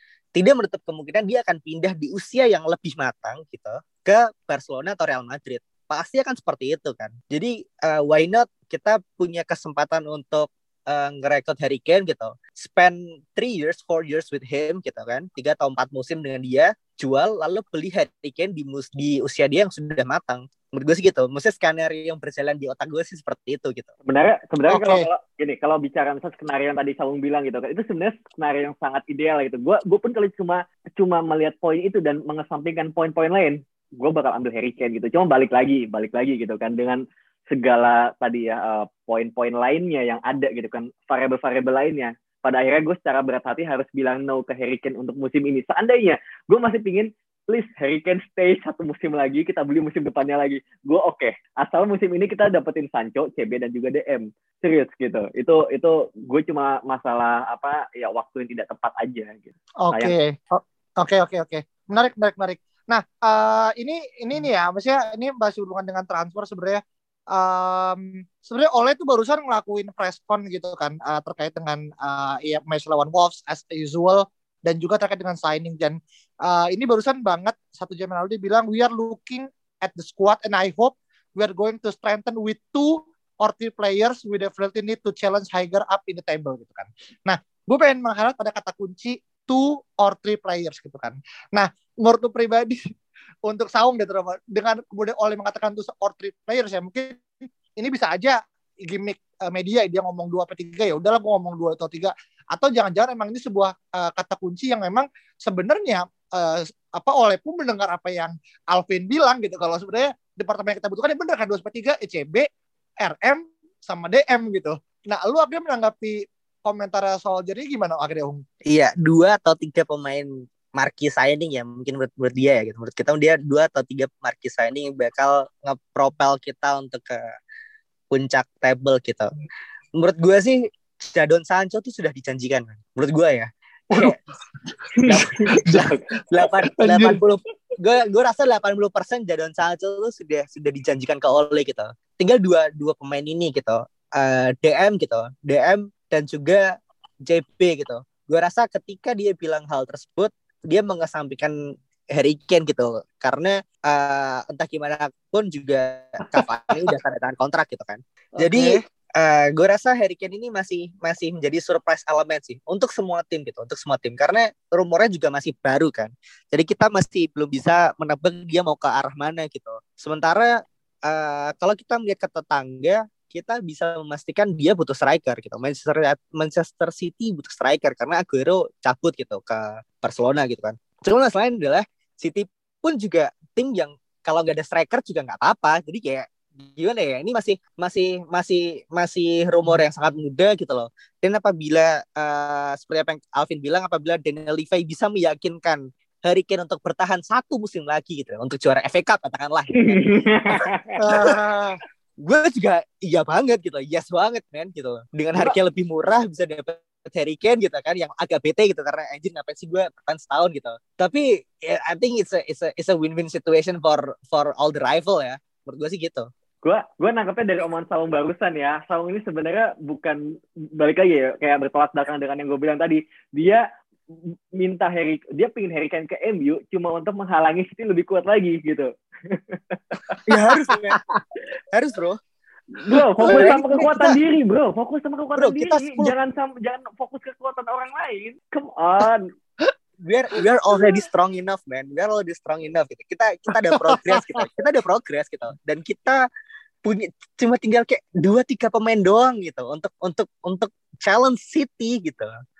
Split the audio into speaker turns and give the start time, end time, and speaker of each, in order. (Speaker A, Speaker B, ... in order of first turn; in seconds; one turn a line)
Speaker A: 0.3-23.9
Speaker B: 24.1-37.0
Speaker C: 24.7-25.1
Speaker B: 37.5-60.1
Speaker C: 59.8-66.8
Speaker C: 67.3-92.8
Speaker C: 93.5-112.5
Speaker C: 113.0-118.4
Speaker A: 118.7-127.2
Speaker A: 128.1-129.3
Speaker A: 129.9-134.2
Speaker B: 134.9-136.0
Speaker A: 135.1-146.7
Speaker C: 136.9-137.2
Speaker A: 147.2-151.5
Speaker A: 152.1-201.3
Speaker C: 156.4-156.9
Speaker C: 158.4-158.8
Speaker B: 199.8-201.0
Speaker C: 201.0-201.8
Speaker A: 202.2-216.3
Speaker B: 216.6-220.2
Speaker B: 220.8-230.2
Speaker A: 230.3-231.0
Speaker A: 231.7-232.2
Speaker B: 232.8-239.3
Speaker A: 233.2-234.2
Speaker C: 233.2-233.6
Speaker A: 235.4-236.2
Speaker A: 240.0-246.3
Speaker C: 243.8-244.4
Speaker A: 246.8-252.3